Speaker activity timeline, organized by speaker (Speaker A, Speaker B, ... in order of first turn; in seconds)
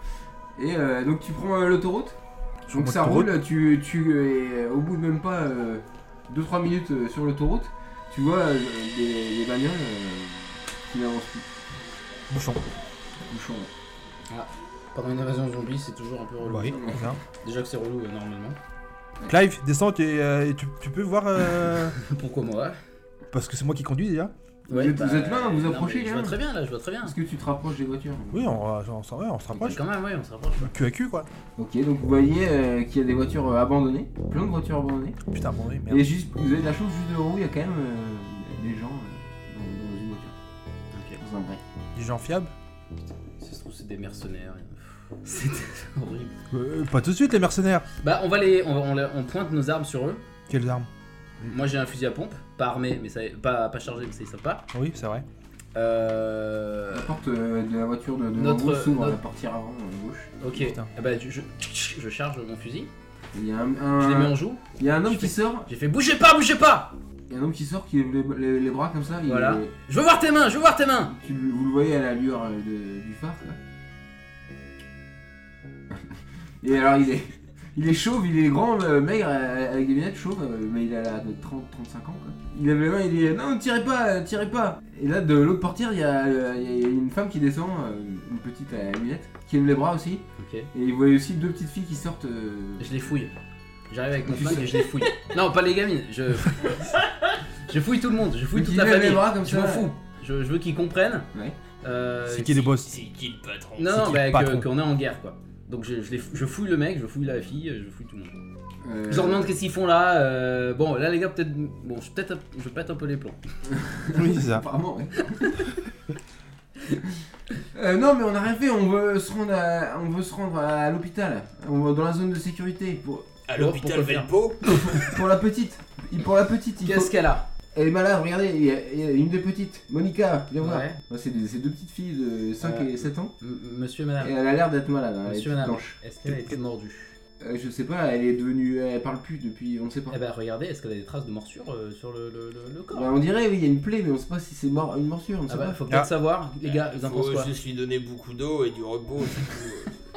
Speaker A: 0.6-2.2, 2.7-11.4, 13.3-13.7, 16.7-17.1, 24.7-26.4, 27.0-28.5, 31.6-35.2, 35.9-40.3, 41.2-41.6, 56.9-60.3, 63.3-65.7, 67.3-69.7, 71.1-73.6, 75.9-92.9, 94.2-95.0, 98.5-99.9, 108.8-109.5, 113.7-115.7, 117.7-123.3, 124.7-127.1, 127.7-133.3, 134.2-136.0, 137.4-140.2, 142.9-145.8
Speaker B: 2.7-3.3, 12.3-12.7, 16.4-17.2, 19.3-21.9, 23.3-24.3, 28.3-29.8, 30.6-31.3, 35.3-36.0, 41.9-42.5, 46.5-47.9, 50.5-50.9, 54.7-55.2, 60.5-60.9, 102.3-102.9, 103.9-104.7, 114.1-114.7, 136.2-136.6
Speaker C: 14.3-16.8, 17.4-18.6, 21.9-22.8, 24.7-27.1, 29.5-30.7, 40.9-41.2, 43.4-46.3, 48.0-50.2, 51.5-54.6, 55.7-57.1, 58.4-59.2, 60.4-62.9, 64.0-66.9, 69.2-71.1, 90.4-90.7, 92.8-93.3, 93.9-96.8, 97.7-101.3, 101.8-102.7, 103.8-108.4, 109.1-113.4, 123.5-124.8, 126.8-127.5, 130.6-131.0, 132.6-134.3, 135.2-137.2, 140.1-143.1, 145.5-147.5
Speaker D: 102.8-104.0, 123.5-124.9, 146.6-149.9